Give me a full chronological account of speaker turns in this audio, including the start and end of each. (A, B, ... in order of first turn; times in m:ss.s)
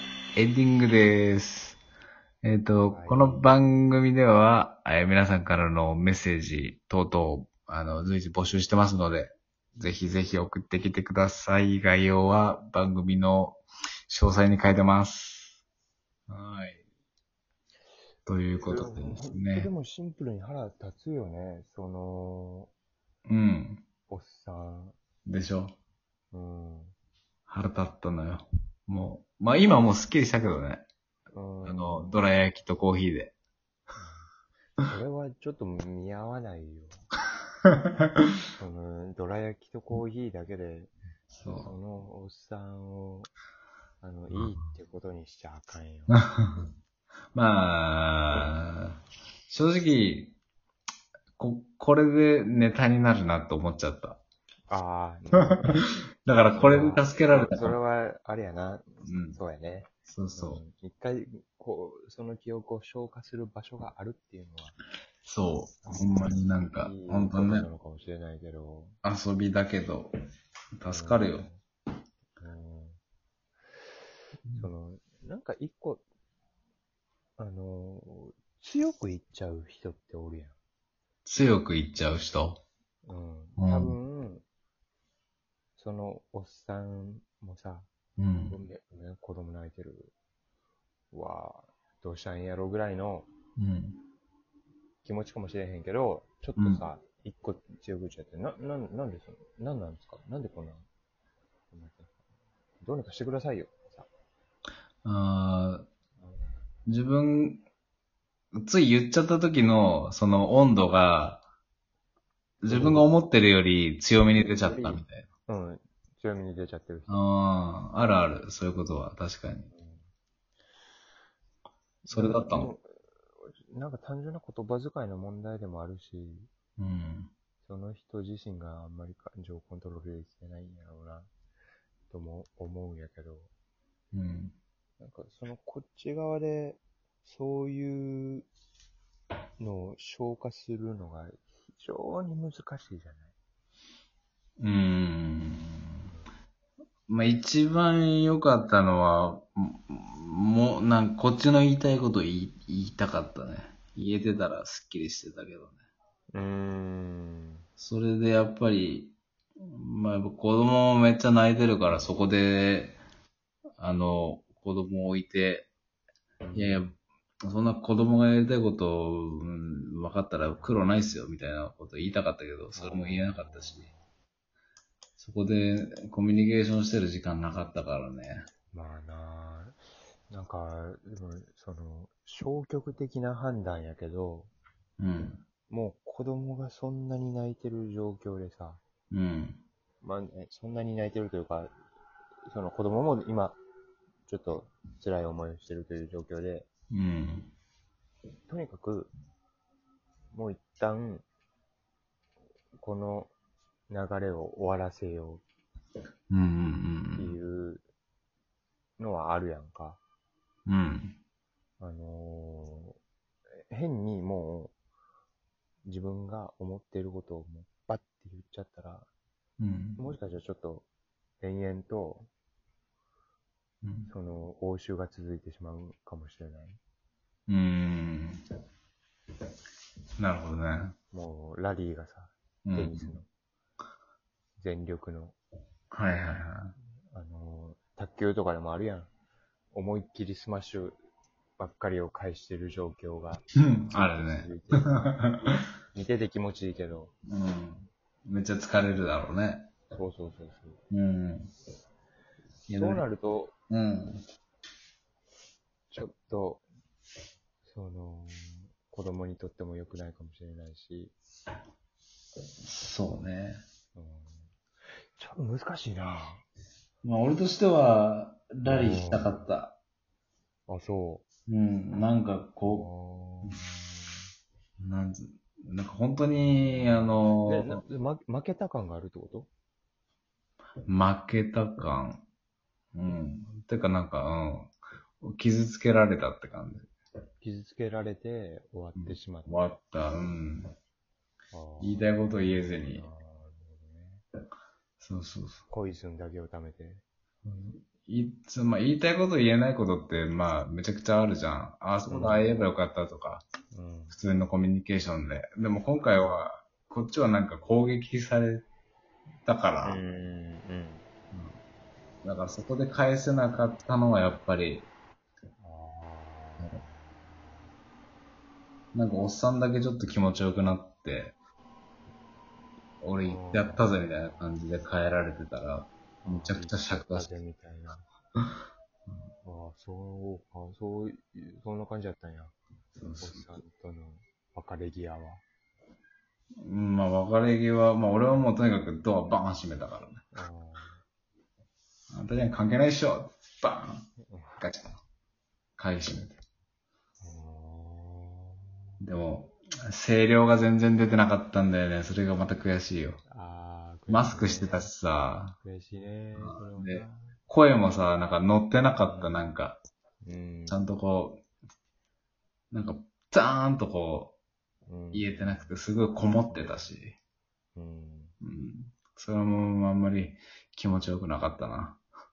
0:00.3-0:01.8 A
0:02.4-0:15.6 A
0:02.9-0:03.4 B
0:16.3-0:16.8 A
0:18.2-0:19.7 A
0:18.6-0:22.7 B
0:23.2-0:23.8 A
0:24.1-0:25.0 B
0:25.2-0:25.7 A
0:26.3-0:26.9 B
0:27.5-0:30.8 A
0:31.3-0:32.1 B
0:31.6-0:33.3 A
0:34.0-0:34.3 B
0:34.9-0:37.0 B
0:38.6-0:40.9 B
0:41.4-0:41.7 A
0:41.6-0:43.3 B
0:44.0-0:46.2 B
0:46.1-0:46.6 A
0:47.3-0:50.4 A
0:51.4-0:54.2 A
0:54.7-0:55.8 B
0:55.6-0:57.7 A
0:56.6-1:04.8 B
0:59.0-0:59.4 A
1:00.1-1:00.6 A
1:05.2-1:07.6 A
1:05.8-1:09.0 B
1:09.0-1:10.1 A
1:10.8-1:11.5 A
1:10.9-1:11.6 B
1:12.4-1:13.0 B
1:14.6-1:16.0 B
1:17.4-1:20.6 B
1:21.2-1:22.6 A
1:23.0-1:24.4 B
1:23.6-1:23.9 A
1:25.8-1:27.9 B
1:28.2-1:28.6 A
1:28.5-1:30.1 B
1:31.1-1:33.3 B
1:33.6-1:34.0 A
1:35.0-1:40.8 B
1:36.6-1:36.8 A
1:41.7-1:42.2 B
1:42.8-1:44.1 B
1:45.0-1:45.8 A
1:46.2-1:46.5 B
1:46.9-1:47.6 A
1:48.6-1:51.4 A
1:52.6-1:55.3 A
1:52.6-1:53.0 B
1:54.6-1:57.3 B
1:57.1-1:59.7 A
1:59.7-2:00.1 B
2:02.1-2:02.7 A
2:02.1-2:06.5 B
2:06.8-2:07.3 A
2:07.6-2:11.3 B
2:12.1-2:13.5 B
2:14.1-2:14.6 A
2:15.0-2:18.5 B
2:19.6-2:23.3 B
2:24.6-2:26.1 A
2:27.1-2:35.8 A
2:36.3-2:37.6 B
2:37.8-2:43.0 A
2:43.8-2:45.7 A
2:46.4-2:46.8 B
2:46.5-2:53.9 A
2:52.7-2:54.0 B
2:55.2-2:58.5 A
2:58.7-3:04.5 B
3:05.0-3:05.4 A
3:05.7-3:08.8 B
3:09.1-3:09.6 A
3:10.0-3:11.7 B
3:12.4-3:13.6 B
3:14.2-3:16.7 B
3:16.9-3:17.5 A
3:18.5-3:19.1 B
3:20.3-3:21.2 B
3:22.8-3:23.3 B
3:23.9-3:25.4 B
3:26.3-3:27.3 A
3:27.2-3:27.8 B
3:29.0-3:30.0 B
3:30.7-3:31.2 A
3:31.8-3:33.0 B
3:33.5-3:34.7 B
3:35.8-3:39.1 B
3:39.6-3:40.0 A
3:40.0-3:40.9 B
3:41.4-3:42.3 B
3:43.8-3:44.1 A
3:44.1-3:46.8 B
3:47.5-3:48.4 A
3:50.2-3:51.0 A
3:51.1-3:53.3 B
3:52.6-3:53.1 A
3:54.6-3:55.4 B
3:55.9-3:56.7 A
3:57.1-3:59.1 B
3:59.7-4:01.0 B
4:01.6-4:05.2 B
4:03.6-4:04.5 A
4:05.1-4:05.6 A
4:05.9-4:07.1 B
4:07.3-4:09.7 A
4:09.9-4:10.8 B
4:10.9-4:11.5 A
4:12.7-4:13.0 A
4:12.7-4:13.5 B
4:13.7-4:14.2 A
4:15.9-4:16.6 B
4:17.6-4:21.1 B
4:22.6-4:23.6 A
4:23.9-4:24.5 B
4:25.1-4:26.4 B
4:27.0-4:29.8 A
4:28.6-4:29.3 B
4:30.7-4:31.2 B
4:31.5-4:32.8 A
4:32.6-4:34.3 B
4:34.8-4:37.8 A
4:36.7-4:39.5 B
4:40.9-4:42.2 A
4:42.9-4:46.9 A
4:47.4-4:49.5 B
4:49.0-4:50.7 A
4:51.5-4:54.2 B
4:51.8-4:53.0 A
4:55.0-4:55.6 A
4:55.7-4:57.0 B
4:57.4-5:03.4 A
5:02.1-5:02.5 B
5:03.7-5:04.2 B
5:04.1-5:08.7 A
5:09.4-5:10.0 A
5:09.8-5:11.0 B
5:12.2-5:14.9 A
5:15.6-5:17.0 B
5:18.9-5:21.4 A
5:23.0-5:27.3 A
5:23.2-5:24.4 B
5:26.2-5:28.1 B
5:29.4-5:32.6 B
5:33.0-5:33.4 A
5:33.2-5:35.4 B
5:36.6-5:40.2 A
5:40.3-5:41.0 B
5:42.1-5:44.0 A
5:44.2-5:44.6 B
5:44.6-5:45.0 A
5:45.8-5:46.4 A
5:47.2-5:48.7 B
5:49.0-5:53.2 A
5:53.3-5:54.9 B
5:54.1-5:55.6 A
5:55.6-5:57.3 B
5:56.4-5:59.8 A
5:59.0-5:59.5 B
6:00.2-6:00.8 B
6:00.7-6:01.4 A
6:02.7-6:04.3 A
6:04.9-6:05.8 B
6:05.1-6:07.2 A
6:06.5-6:06.9 B
6:07.7-6:08.3 B
6:08.4-6:12.0 A